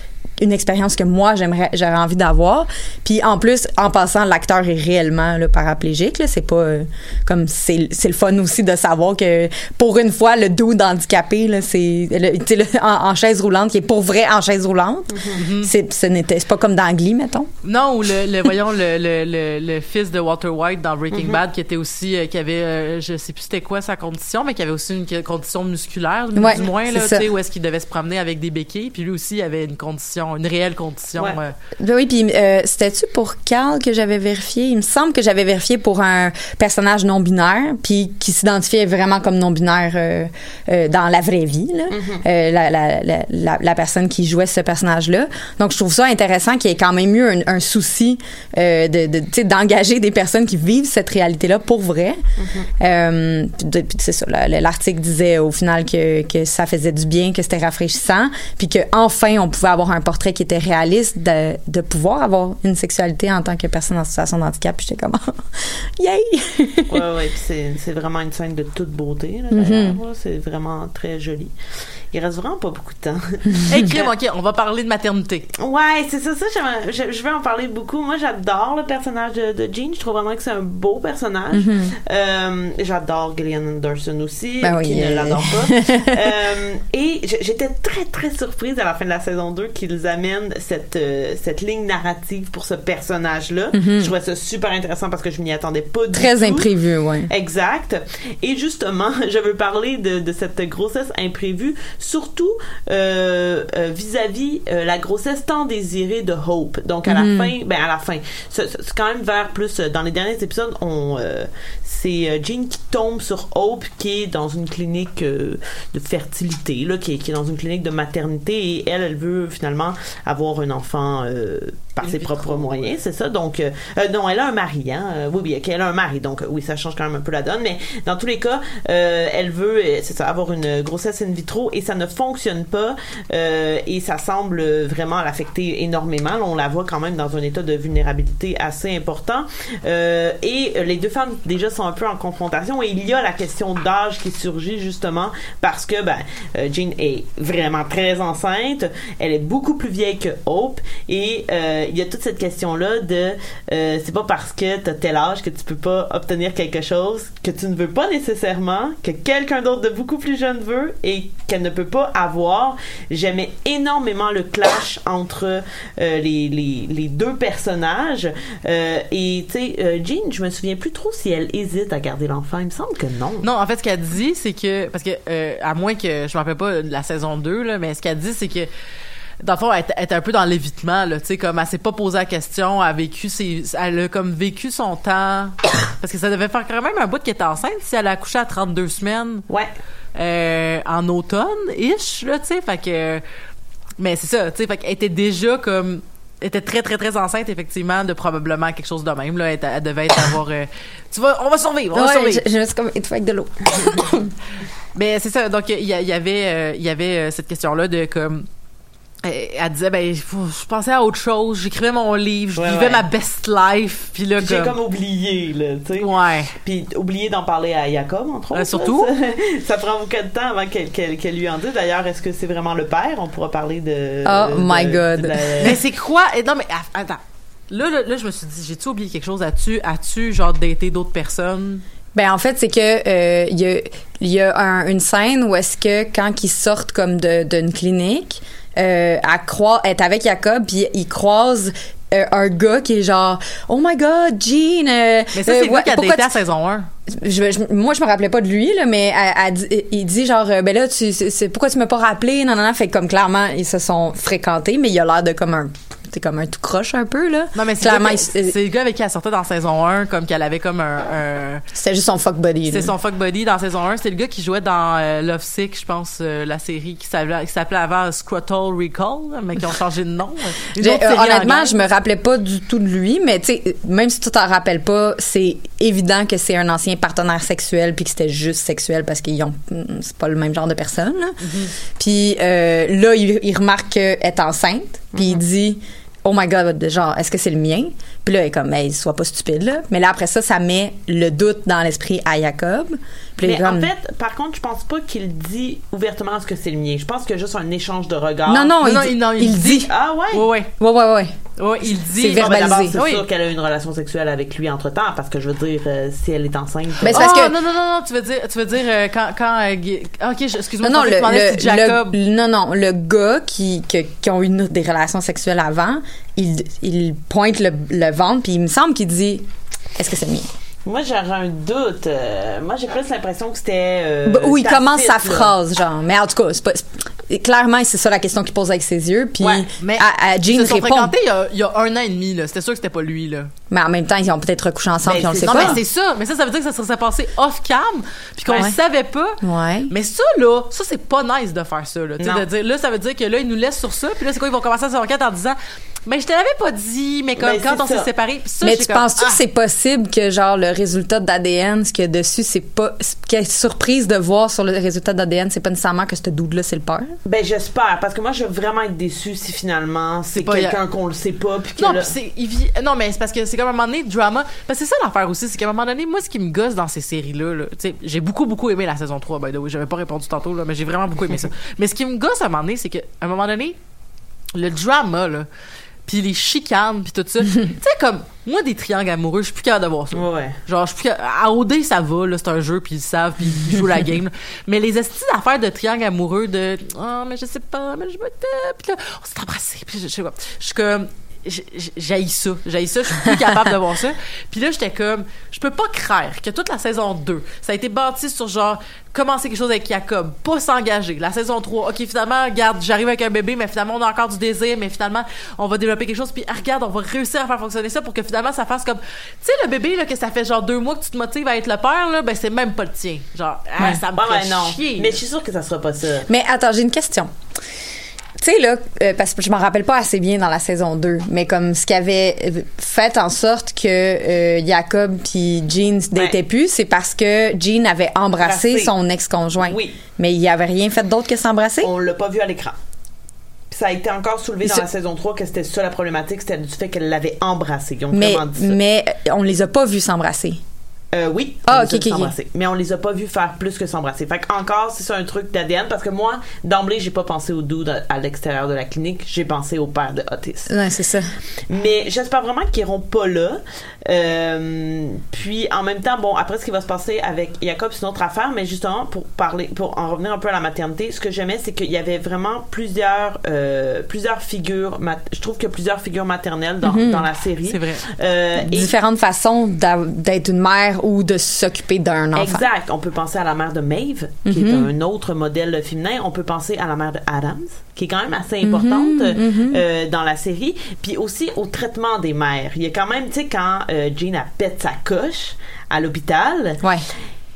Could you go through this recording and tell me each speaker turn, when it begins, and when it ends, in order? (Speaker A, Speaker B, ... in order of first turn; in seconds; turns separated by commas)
Speaker A: 0.4-17.5, Speaker B: 15.3-15.7, Speaker B: 17.6-31.5, Speaker C: 21.1-21.4, Speaker A: 26.3-27.2, Speaker A: 31.8-52.2, Speaker C: 41.9-42.2, Speaker C: 52.4-52.7, Speaker A: 52.8-67.0, Speaker C: 66.9-71.5, Speaker A: 69.5-70.0, Speaker C: 72.1-74.1, Speaker B: 73.7-75.5, Speaker C: 75.6-96.7, Speaker A: 81.5-81.9, Speaker A: 84.6-86.3, Speaker A: 93.7-94.1, Speaker A: 96.1-97.3, Speaker C: 97.3-173.4, Speaker A: 107.0-107.5, Speaker B: 122.0-122.9, Speaker B: 173.4-178.7, Speaker B: 179.4-189.4, Speaker B: 190.1-193.2, Speaker B: 194.0-202.4, Speaker A: 201.9-204.3, Speaker B: 204.9-208.5, Speaker B: 209.2-214.7, Speaker C: 212.5-213.1, Speaker C: 214.4-225.8, Speaker B: 216.0-216.6, Speaker B: 218.5-219.1, Speaker A: 224.2-225.5, Speaker B: 225.6-231.8, Speaker A: 232.1-246.3, Speaker B: 245.3-246.9, Speaker A: 247.1-258.5, Speaker B: 257.5-261.6, Speaker A: 261.7-262.9, Speaker B: 262.7-271.8, Speaker A: 270.8-281.4, Speaker B: 281.4-281.7, Speaker A: 281.9-293.9, Speaker C: 285.1-285.4, Speaker C: 293.4-298.8, Speaker A: 298.5-299.9, Speaker B: 298.8-300.7, Speaker C: 299.8-300.5, Speaker A: 300.8-301.3, Speaker B: 301.6-303.2, Speaker A: 302.1-302.9, Speaker C: 302.3-307.4, Speaker A: 307.0-307.5, Speaker B: 307.1-312.2, Speaker A: 310.8-320.5, Speaker C: 320.9-325.5, Speaker A: 324.2-331.1, Speaker C: 329.4-329.7, Speaker B: 329.8-333.5, Speaker A: 333.7-335.8, Speaker C: 335.0-335.8, Speaker B: 335.4-349.4, Speaker C: 338.5-338.7, Speaker A: 339.4-339.9, Speaker C: 342.2-342.4, Speaker C: 347.4-348.1, Speaker A: 348.6-357.1, Speaker C: 357.2-362.1, Speaker B: 360.3-360.8, Speaker B: 361.8-373.8, Speaker B: 374.5-375.5, Speaker B: 376.1-415.2, Speaker C: 380.1-380.6, Speaker C: 414.1-416.3, Speaker A: 416.3-417.3, Speaker A: 418.4-431.9, Speaker C: 428.4-428.9, Speaker C: 429.6-430.0, Speaker C: 431.8-432.8, Speaker C: 433.7-438.8, Speaker A: 438.1-440.6, Speaker C: 441.1-450.8, Speaker A: 441.7-442.3, Speaker A: 450.7-451.3, Speaker C: 451.7-468.9, Speaker A: 466.8-467.2, Speaker B: 467.7-468.0, Speaker A: 468.6-472.6, Speaker C: 472.3-486.9, Speaker A: 474.4-474.9, Speaker A: 478.6-479.8